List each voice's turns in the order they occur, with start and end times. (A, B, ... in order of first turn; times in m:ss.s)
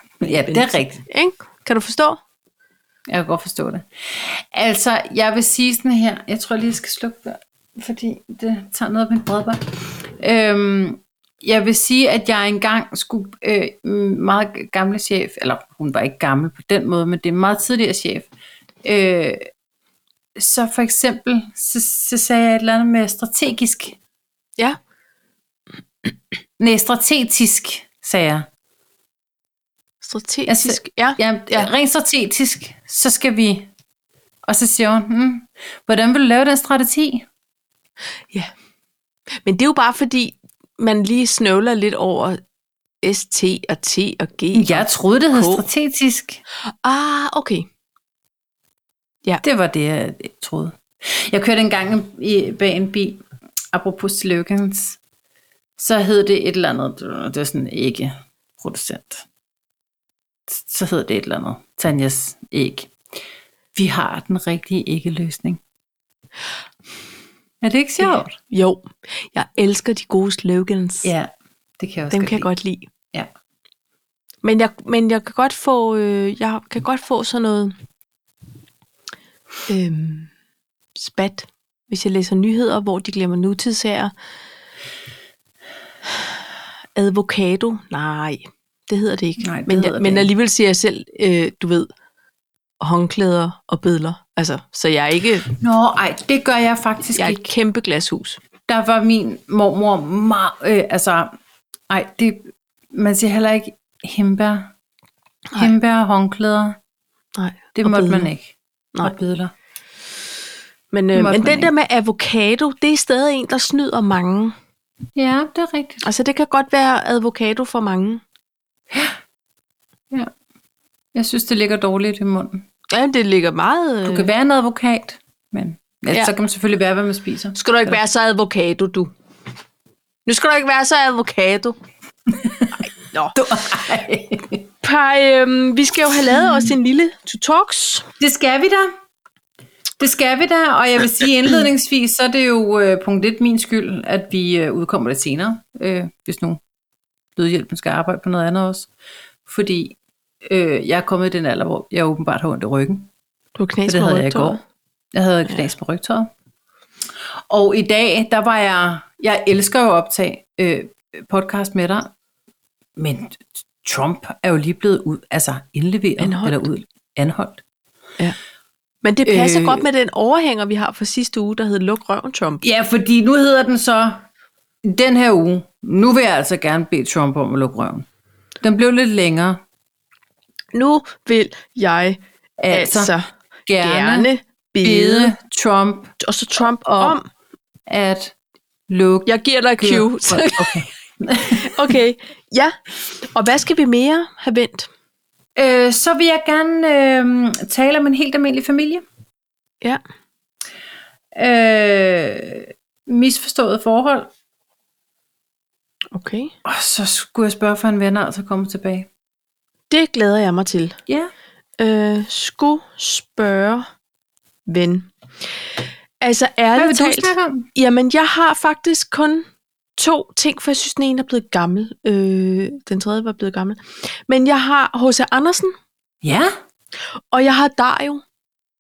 0:00.2-0:01.0 A
0:00.2-0:02.2 B
0:03.1-0:18.3 A
0:18.8-0:19.4 A
0:20.4-0:24.0 A
0:26.6-0:28.5 A
0:30.0-0:31.7 B
0:30.5-0:33.7 A
0:34.5-0:37.3 A
0:39.4-0:42.4 B
0:43.0-0:45.7 B
0:44.6-0:46.4 A
0:46.6-0:47.7 B
0:49.4-0:55.0 A
0:55.8-0:59.3 A
1:00.5-1:02.9 A
1:03.7-1:05.6 A
1:07.6-1:08.4 A
1:08.0-1:11.1 B
1:11.0-1:12.5 A
1:12.1-1:12.9 B
1:14.4-1:17.8 B
1:19.7-1:20.3 B
1:21.0-1:24.1 B
1:27.0-1:31.9 B
1:29.4-1:30.3 A
1:32.8-1:35.5 B
1:35.5-1:37.4 A
1:37.2-1:38.4 B
1:38.7-1:41.3 A
1:41.9-1:44.7 A
1:45.6-1:46.8 A
1:47.4-1:48.3 B
1:47.8-1:49.5 A
1:50.9-1:54.6 B
1:51.2-1:51.7 A
1:55.2-1:56.0 A
1:56.0-1:58.2 B
1:58.9-1:59.2 A
2:01.1-2:02.6 A
2:02.9-2:04.3 B
2:04.0-2:08.0 A
2:07.6-2:09.1 B
2:10.3-2:11.8 B
2:12.3-2:12.7 A
2:12.8-2:13.4 B
2:13.3-2:14.7 A
2:14.8-2:18.1 B
2:18.2-2:18.9 A
2:20.0-2:26.6 A
2:27.4-2:28.9 A
2:29.5-2:33.1 A
2:33.6-2:34.6 B
2:33.9-2:34.6 A
2:35.1-2:36.3 A
2:37.5-2:42.1 A
2:43.0-2:47.6 A
2:46.2-2:46.7 B
2:49.0-2:52.6 B
2:49.2-2:49.9 A
2:52.6-2:54.2 A
2:54.8-2:58.1 A
2:58.6-2:59.6 A
3:00.7-3:02.2 B
3:02.6-3:03.1 A
3:02.7-3:05.3 B
3:03.7-3:04.3 A
3:04.8-3:06.1 A
3:06.2-3:07.3 B
3:07.9-3:08.4 A
3:08.9-3:12.0 A
3:09.3-3:10.8 B
3:11.6-3:12.7 B
3:13.3-3:14.9 B
3:15.6-3:19.0 A
3:21.4-3:24.3 A
3:26.1-3:26.5 B
3:26.6-3:29.1 A
3:29.9-3:31.0 B
3:31.8-3:33.9 B
3:34.7-3:35.1 B
3:36.2-3:39.5 B
3:36.8-3:37.7 A
3:40.0-3:45.7 B
3:46.2-3:46.5 A
3:47.3-3:48.2 B